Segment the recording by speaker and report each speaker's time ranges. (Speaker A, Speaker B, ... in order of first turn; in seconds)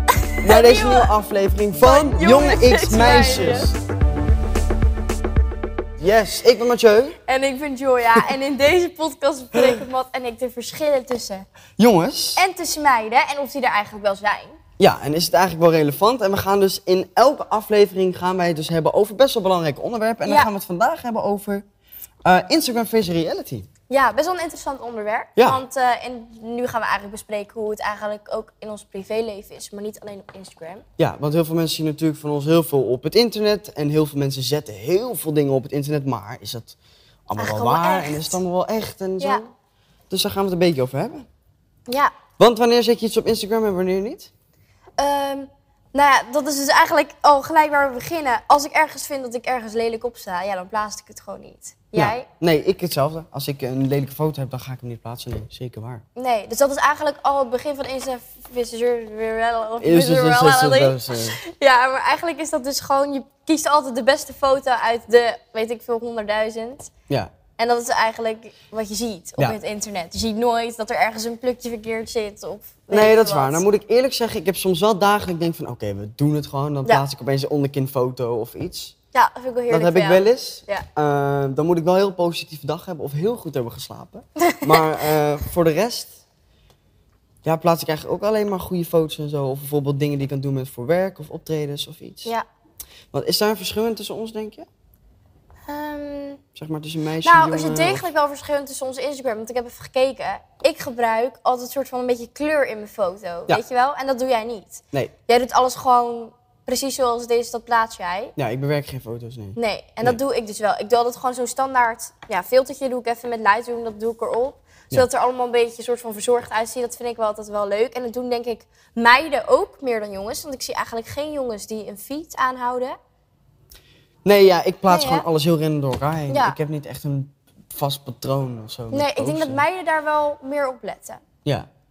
Speaker A: 0.3-1.1, 1.8-3.7, 7.2-11.4, 12.3-14.6, 20.2-20.5, 23.9-30.8, 37.4-38.4, 41.9-42.1, 45.0-52.3, 56.1-66.9, 67.6-73.6, 79.1-80.8, 95.7-96.4, 97.2-108.3, 109.5-122.9, 124.9-125.2, 126.3-126.6, 128.9-131.2
Speaker B: 0.4-3.8, 6.0-7.2, 11.8-12.4, 14.8-21.6, 22.2-23.7, 25.4-25.6, 31.0-39.5, 40.1-41.3, 42.4-44.3, 51.9-56.0, 59.8-61.4, 72.9-78.9, 79.7-86.2, 87.4-92.3, 93.1-94.7, 96.5-98.1, 108.4-110.2, 124.2-129.6